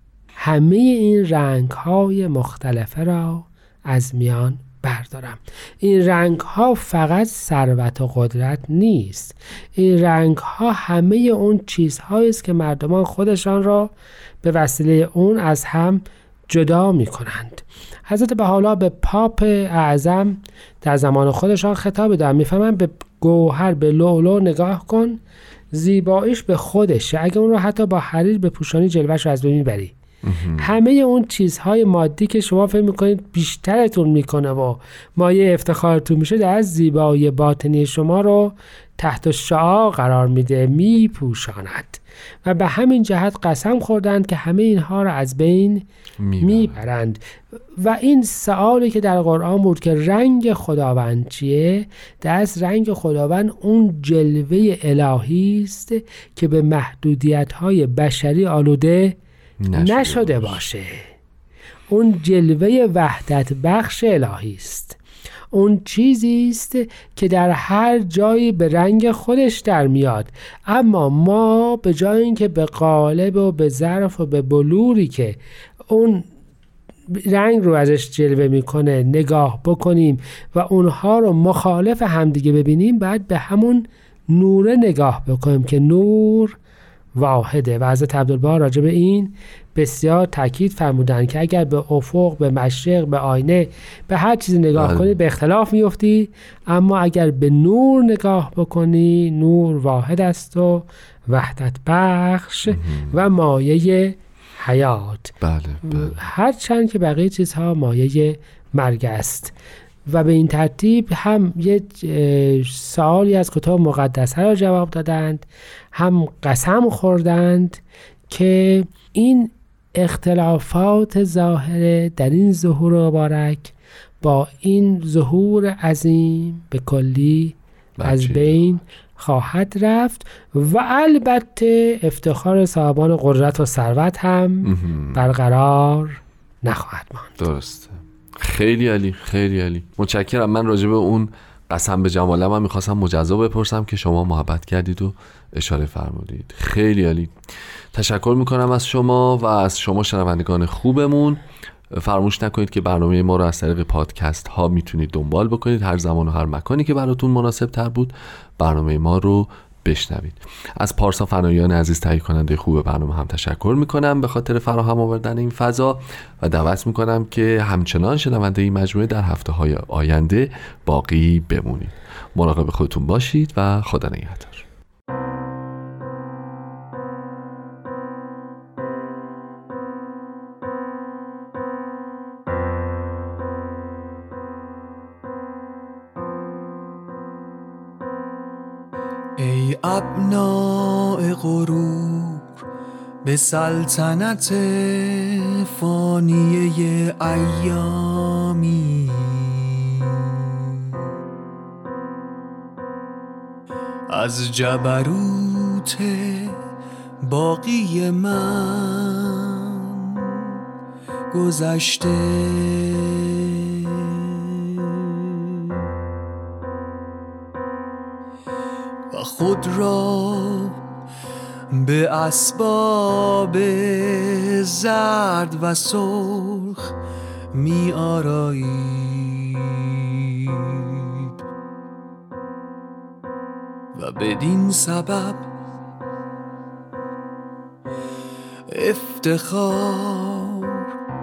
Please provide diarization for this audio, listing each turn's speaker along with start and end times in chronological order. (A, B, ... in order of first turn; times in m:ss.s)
0:00.4-0:25.2 A
0:25.7-0:29.9 A
0:30.2-0:30.8 B
0:30.6-0:45.8 A
0:46.2-0:46.8 B
0:46.4-0:47.2 A
0:47.8-0:59.2 A
0:59.6-1:00.6 B
0:59.7-1:01.1 A
1:01.9-1:05.0 A
1:05.5-1:16.3 A
1:17.1-1:26.6 A
1:27.1-1:49.5 A
1:34.8-1:35.1 B
1:42.7-1:43.2 B
1:45.4-1:46.2 B
1:50.1-2:17.5 A
2:08.0-2:08.6 B
2:14.6-2:15.3 B
2:17.4-2:27.3 B
2:27.9-2:31.4 B
2:31.9-2:54.6 B
3:09.4-3:12.6 C
3:13.2-3:21.0 C
3:24.1-3:26.6 C
3:27.2-3:30.6 C
3:31.3-3:35.5 C
3:39.1-3:40.8 C
3:41.7-3:46.9 C
3:47.5-3:51.3 C
3:53.9-3:55.5 C
3:58.7-4:00.9 C